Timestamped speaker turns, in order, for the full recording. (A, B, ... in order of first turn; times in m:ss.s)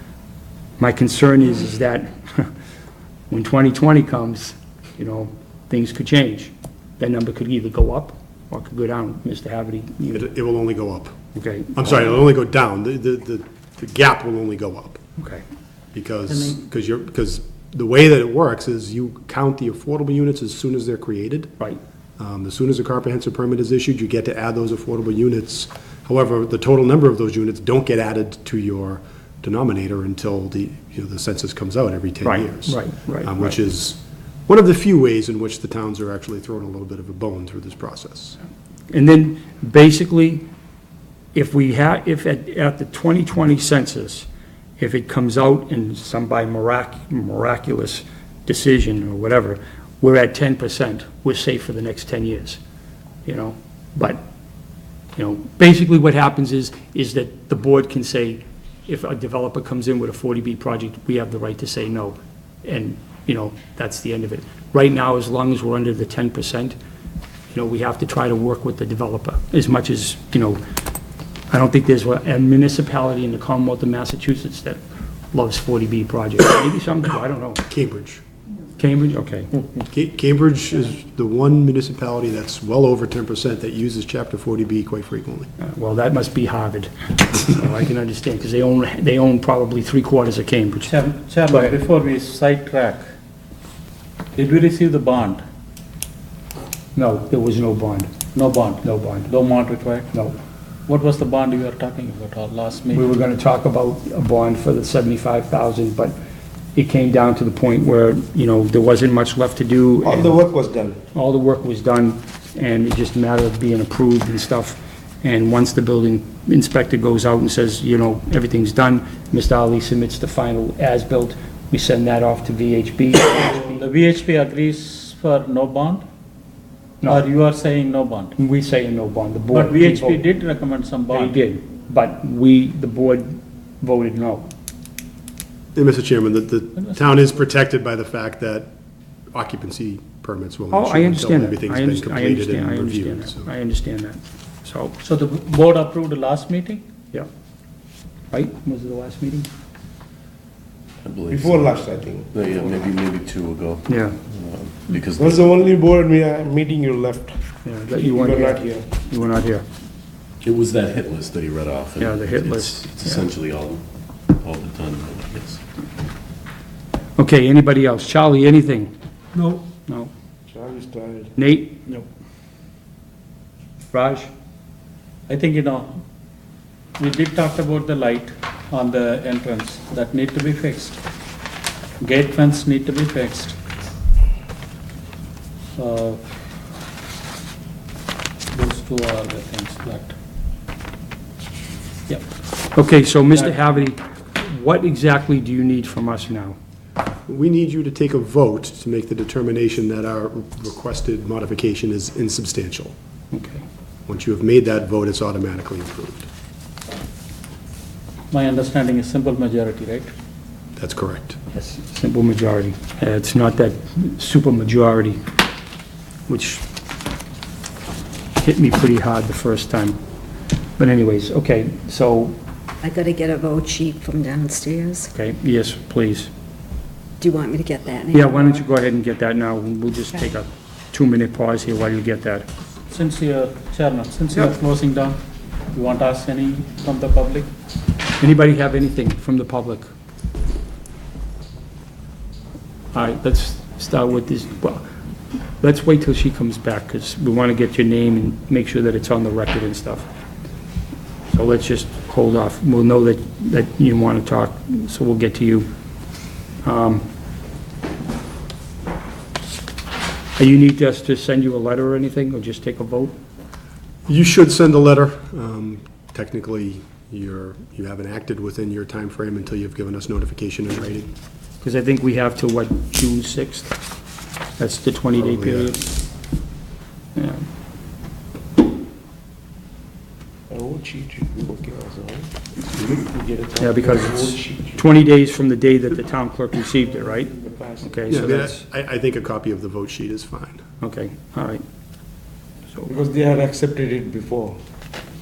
0:00.8-0:02.5 A
0:03.3-0:10.3 A
0:10.1-0:11.2 B
0:11.4-0:12.0 A
0:11.7-0:15.0 B
0:15.2-0:15.4 A
0:15.9-0:21.5 B
0:16.3-0:16.6 C
0:22.2-0:38.4 B
0:32.2-0:33.6 A
0:38.9-0:40.4 A
0:41.3-0:44.3 A
0:44.8-0:52.6 A
0:53.2-0:54.2 A
0:55.2-1:06.8 A
1:07.5-1:10.6 A
1:11.5-1:14.8 A
1:15.3-1:17.6 A
1:17.7-1:18.2 B
1:18.8-1:19.5 A
1:19.9-1:25.5 B
1:25.6-1:30.9 A
1:30.9-1:33.0 C
1:31.5-1:31.8 A
1:34.3-1:35.4 C
1:36.9-1:38.1 A
1:38.3-1:40.1 C
1:38.8-1:39.3 A
1:40.1-1:40.4 A
1:40.9-1:43.1 C
1:42.9-1:46.2 A
1:46.8-1:50.3 A
1:50.1-1:51.0 D
1:51.1-2:03.8 A
2:03.6-2:06.0 C
2:07.0-2:08.3 C
2:08.4-2:10.2 A
2:09.5-2:11.4 C
2:11.1-2:14.5 A
2:15.8-2:18.7 B
2:19.3-2:23.5 B
2:20.7-2:25.0 A
2:25.0-2:26.8 C
2:28.3-2:29.5 A
2:31.0-2:35.5 E
2:31.3-2:32.3 D
2:33.8-2:34.2 A
2:35.2-2:38.8 D
2:37.6-2:39.6 A
2:40.4-2:45.6 E
2:42.0-2:43.2 A
2:47.2-2:48.9 A
2:49.8-2:50.1 A
2:50.5-2:51.3 D
2:51.4-2:51.9 A
2:53.9-2:54.3 A
2:55.3-2:56.0 C
2:57.0-3:01.0 C
3:02.0-3:03.6 C
3:05.8-3:06.2 C
3:08.5-3:10.2 C
3:12.7-3:16.6 A
3:17.3-3:22.9 B
3:23.3-3:23.6 A
3:24.1-3:26.3 B
3:28.3-3:30.1 C
3:30.8-3:31.4 B
3:31.5-3:35.2 A
3:36.3-3:36.6 A
3:38.4-3:40.0 A
3:40.8-3:42.4 A
3:42.8-3:45.1 F
3:45.1-3:46.3 A
3:47.2-3:48.4 F
3:48.1-3:52.5 A
3:52.9-3:55.2 C
3:55.7-3:57.5 C
3:58.2-3:59.9 A
4:02.9-4:04.8 A
4:05.6-4:10.1 A
4:11.3-4:15.7 A
4:16.6-4:17.0 A
4:20.4-4:23.1 A
4:24.1-4:31.1 B
4:31.6-4:33.8 A
4:34.6-4:35.8 A
4:35.2-4:35.8 B
4:37.1-4:37.4 A
4:40.5-4:44.8 D
4:43.6-4:48.6 A
4:47.4-4:47.9 D
4:48.1-4:50.6 B
4:50.8-4:51.6 A
4:52.9-4:54.6 D